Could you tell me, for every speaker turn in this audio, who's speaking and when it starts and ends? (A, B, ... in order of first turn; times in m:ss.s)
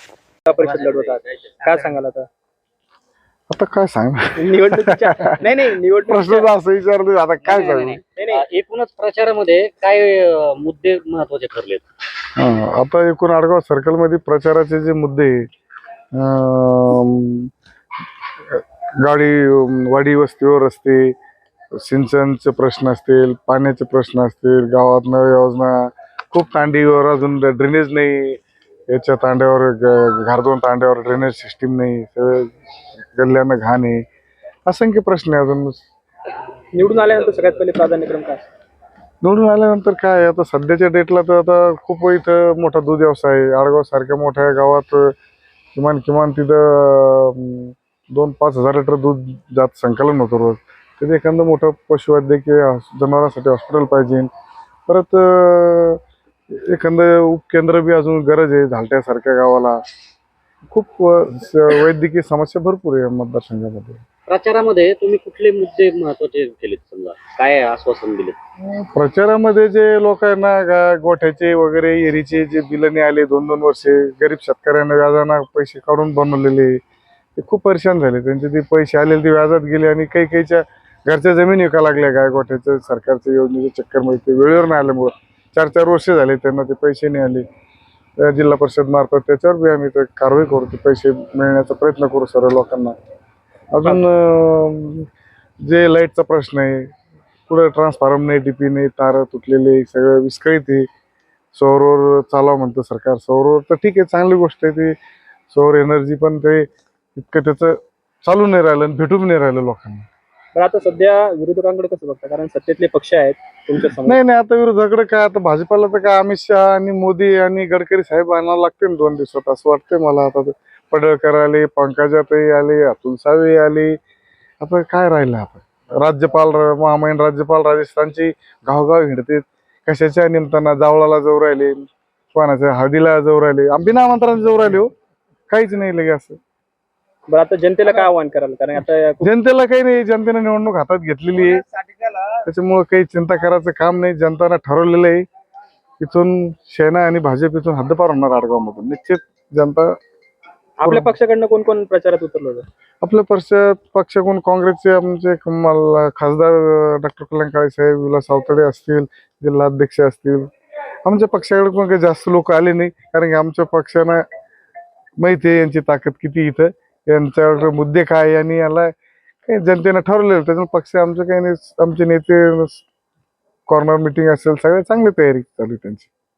0:00.4-0:02.3 A
0:03.5-0:05.2 B
0:04.4-0:06.5 A
0:06.0-0:08.0 B
0:07.4-0:11.8 C
0:08.2-0:08.4 A
0:12.4-0:15.4 B
0:16.1-0:17.5 B
0:18.5-0:21.1 B
0:21.8-0:28.4 B
0:28.9-0:32.5 B
0:33.1-0:34.0 B
0:34.7-0:35.8 B
0:36.8-0:38.5 A
0:39.2-0:45.1 B
0:45.8-0:54.3 B
0:54.9-0:56.0 B
0:56.5-0:59.8 B
1:00.7-1:04.0 B
1:04.3-1:08.4 C
1:08.7-1:16.8 B
1:17.4-1:27.4 B
1:28.2-1:33.0 B
1:33.7-1:35.0 B
1:35.6-1:36.9 B
1:37.5-1:40.8 B
1:41.5-1:44.9 B
1:45.5-1:50.1 B
1:50.5-1:54.2 A
1:54.0-2:03.9 B
2:04.6-2:14.9 B
2:15.5-2:16.4 B
2:17.3-2:19.3 A
2:19.2-2:21.6 B
2:22.4-2:25.2 B
2:26.0-2:29.9 B
2:30.8-2:32.6 A
2:30.8-2:31.1 B
2:33.0-2:40.5 B
2:41.0-2:44.2 B
2:45.2-2:48.9 B
2:49.4-2:52.8 B
2:53.7-2:56.1 B